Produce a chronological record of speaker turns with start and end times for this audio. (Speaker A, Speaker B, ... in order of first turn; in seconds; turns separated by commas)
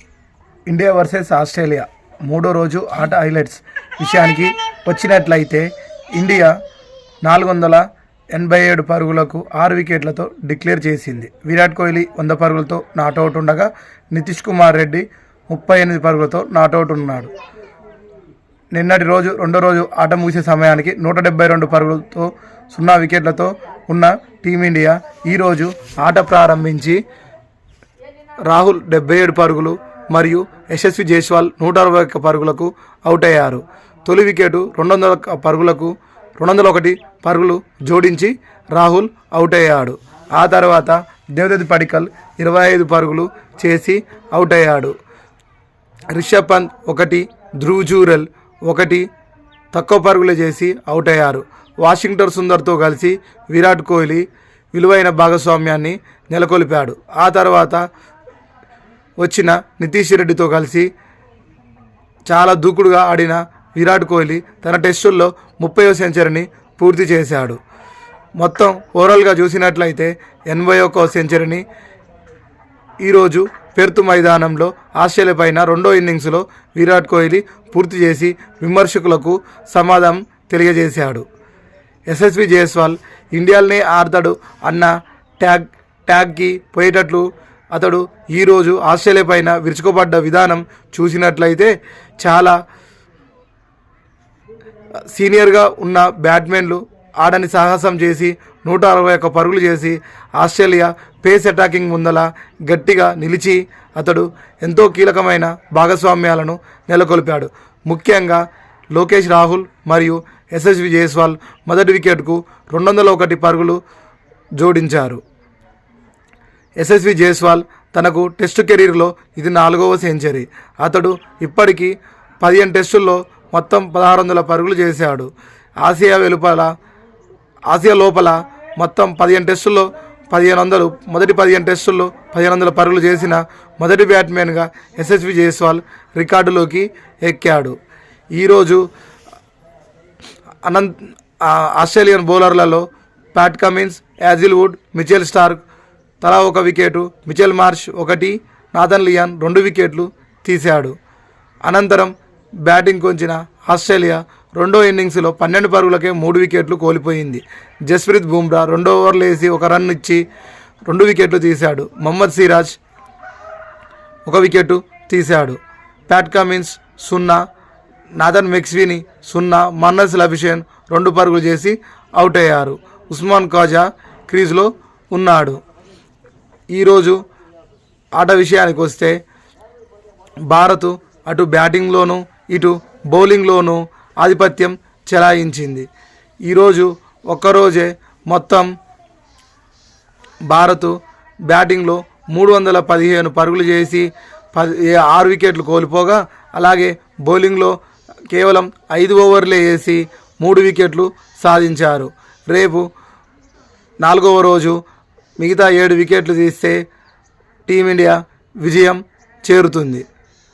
Speaker A: 0.7-5.7, Speaker A: 6.2-6.5, Speaker A: 7.2-17.3, Speaker A: 18.7-27.0, Speaker A: 28.5-45.0, Speaker A: 46.1-49.1, Speaker A: 49.7-57.8, Speaker A: 59.2-60.9, Speaker A: 62.3-67.6, Speaker A: 68.4-71.6, Speaker A: 73.0-81.2, Speaker A: 82.1-92.6, Speaker A: 95.1-113.8, Speaker A: 114.6-115.2, Speaker A: 116.8-126.7, Speaker A: 127.7-137.8, Speaker A: 138.4-138.8, Speaker A: 140.7-145.6, Speaker A: 146.2-150.9, Speaker A: 151.7-152.1, Speaker A: 152.7-160.2, Speaker A: 160.9-162.8, Speaker A: 164.3-167.4, Speaker A: 168.2-175.6, Speaker A: 176.7-177.2, Speaker A: 178.2-179.2, Speaker A: 180.5-185.9, Speaker A: 186.5-188.7, Speaker A: 190.5-190.9, Speaker A: 191.5-197.7, Speaker A: 198.3-202.9, Speaker A: 204.0-204.8, Speaker A: 205.4-206.8, Speaker A: 207.7-210.1